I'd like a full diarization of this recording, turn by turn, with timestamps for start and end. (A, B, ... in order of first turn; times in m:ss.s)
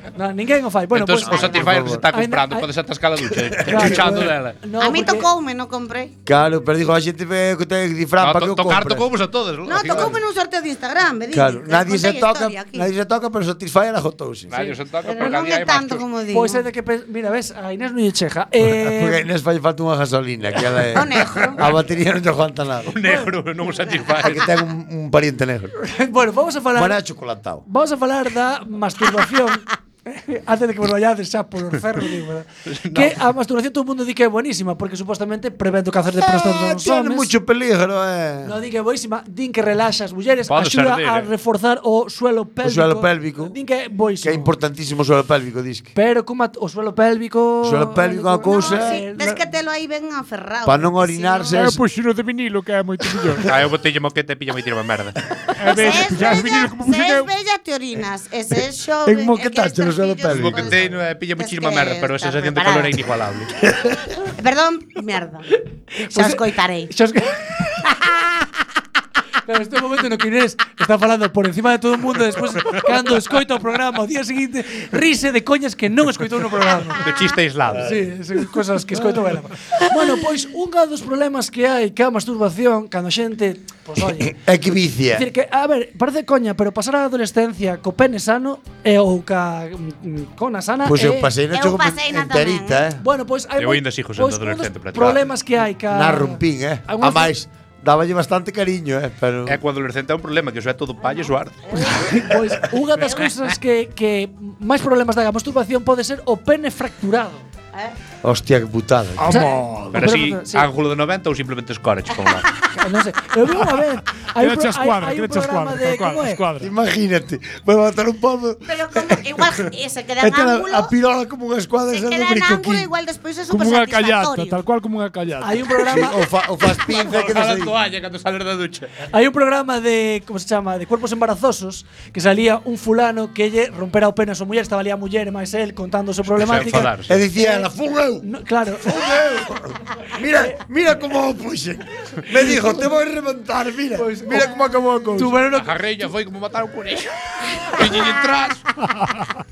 0:00.2-0:02.7 A
0:00.9-0:04.6 B
0:01.3-0:02.1 C
0:03.2-0:04.4 C
0:03.7-0:05.3 A
0:04.8-0:06.1 D
0:06.3-0:09.1 C
0:08.2-0:10.2 B
0:09.6-0:12.9 D
0:09.9-0:10.2 C
0:11.3-0:14.5 C
0:14.5-0:16.0 B
0:15.0-0:16.6 D
0:16.3-0:19.2 A
0:18.6-0:22.9 C
0:20.9-0:21.7 D
0:22.9-0:24.5 B
0:23.0-0:23.3 A
0:24.2-0:25.7 C
0:25.8-0:27.0 A
0:26.8-0:27.6 C
0:27.7-0:37.3 A
0:32.7-0:33.2 B
0:36.4-0:38.6 C
0:38.4-0:44.5 A
0:40.5-0:41.3 B
0:42.6-0:43.6 C
0:44.2-0:45.9 C
0:46.0-0:49.5 A
0:47.6-0:49.0 C
0:48.5-0:51.6 D
0:50.6-0:51.8 C
0:51.5-0:53.5 E
0:53.5-0:55.2 B
0:55.6-0:57.3 E
0:55.6-1:03.0 D
0:59.0-1:00.8 C
1:00.3-1:03.5 B
1:03.6-1:04.0 C
1:04.2-1:05.5 D
1:06.0-1:08.3 A
1:06.1-1:06.9 D
1:09.4-1:17.1 A
1:17.0-1:17.9 B
1:17.7-1:18.1 C
1:17.8-1:24.3 A
1:24.0-1:25.3 C
1:25.1-1:31.3 A
1:30.8-1:33.0 C
1:31.5-1:32.9 D
1:33.0-1:37.3 A
1:33.6-1:35.3 B
1:35.9-1:39.6 C
1:39.5-1:41.6 B
1:41.7-1:42.0 D
1:41.7-1:47.4 A
1:48.2-1:49.5 C
1:49.2-1:50.1 E
1:49.3-1:50.7 A
1:49.9-1:52.5 B
1:52.8-1:56.4 A
1:54.4-1:56.7 E
1:56.6-1:59.5 C
1:58.7-2:00.9 D
2:00.2-2:02.9 C
2:01.9-2:04.6 D
2:03.5-2:05.8 E
2:05.4-2:06.3 A
2:05.8-2:07.7 C
2:06.8-2:09.0 B
2:09.1-2:17.7 A
2:16.3-2:17.2 B
2:17.1-2:18.3 C
2:18.2-2:19.1 A
2:18.8-2:25.4 C
2:22.3-2:22.8 A
2:24.0-2:24.6 A
2:25.2-2:26.1 A
2:25.5-2:28.6 B